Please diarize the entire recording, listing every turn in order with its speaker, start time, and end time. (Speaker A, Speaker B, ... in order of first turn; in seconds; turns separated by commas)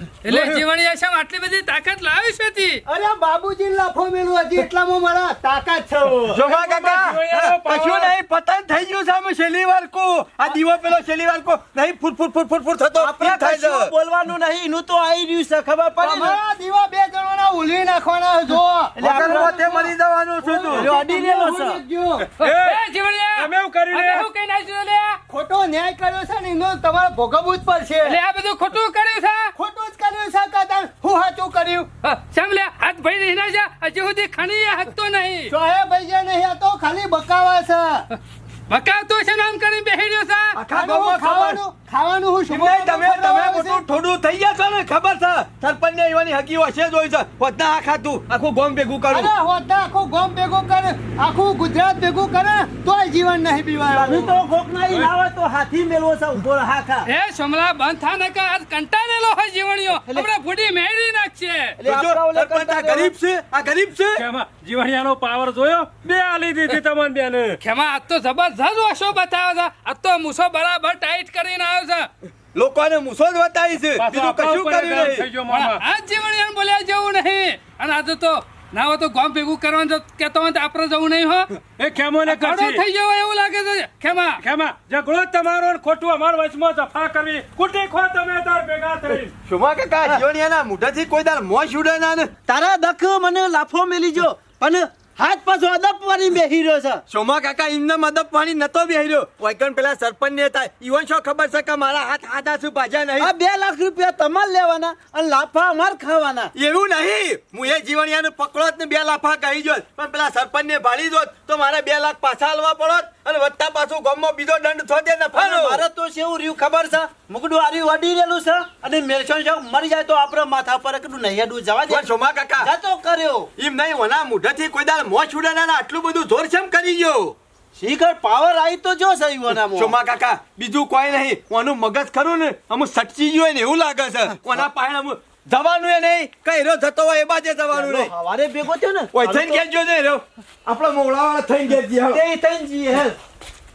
Speaker A: 0.2-2.8, Speaker B: 2.9-6.4, Speaker C: 6.3-13.9, Speaker D: 6.4-8.1, Speaker E: 13.0-16.4, Speaker B: 16.0-19.9, Speaker E: 19.0-19.6, Speaker C: 19.0-20.9, Speaker B: 20.4-22.3, Speaker E: 20.7-21.8, Speaker D: 22.4-22.8, Speaker A: 22.4-25.2, Speaker D: 23.4-24.3, Speaker B: 25.3-28.2, Speaker A: 28.0-29.5, Speaker B: 29.6-31.9, Speaker A: 32.0-35.5, Speaker B: 35.5-38.0, Speaker A: 38.7-40.5, Speaker C: 40.5-41.6, Speaker B: 40.7-43.8, Speaker C: 42.5-49.3, Speaker B: 49.1-54.4, Speaker E: 54.0-57.1, Speaker A: 57.1-61.8, Speaker E: 61.8-63.1, Speaker C: 61.8-64.2, Speaker D: 64.2-67.6, Speaker A: 67.6-72.1, Speaker C: 72.5-75.3, Speaker D: 74.0-75.8, Speaker A: 75.5-81.5, Speaker D: 81.8-82.8, Speaker A: 82.3-84.4, Speaker D: 84.4-89.3, Speaker C: 89.1-92.3, Speaker E: 92.5-97.0, Speaker C: 97.1-103.3, Speaker E: 103.2-106.5, Speaker C: 106.5-115.8, Speaker E: 115.3-123.5, Speaker C: 121.9-122.7, Speaker C: 123.6-127.4, Speaker E: 127.8-129.9, Speaker C: 129.6-138.1, Speaker E: 137.7-139.6, Speaker C: 139.1-142.2, Speaker E: 142.1-143.2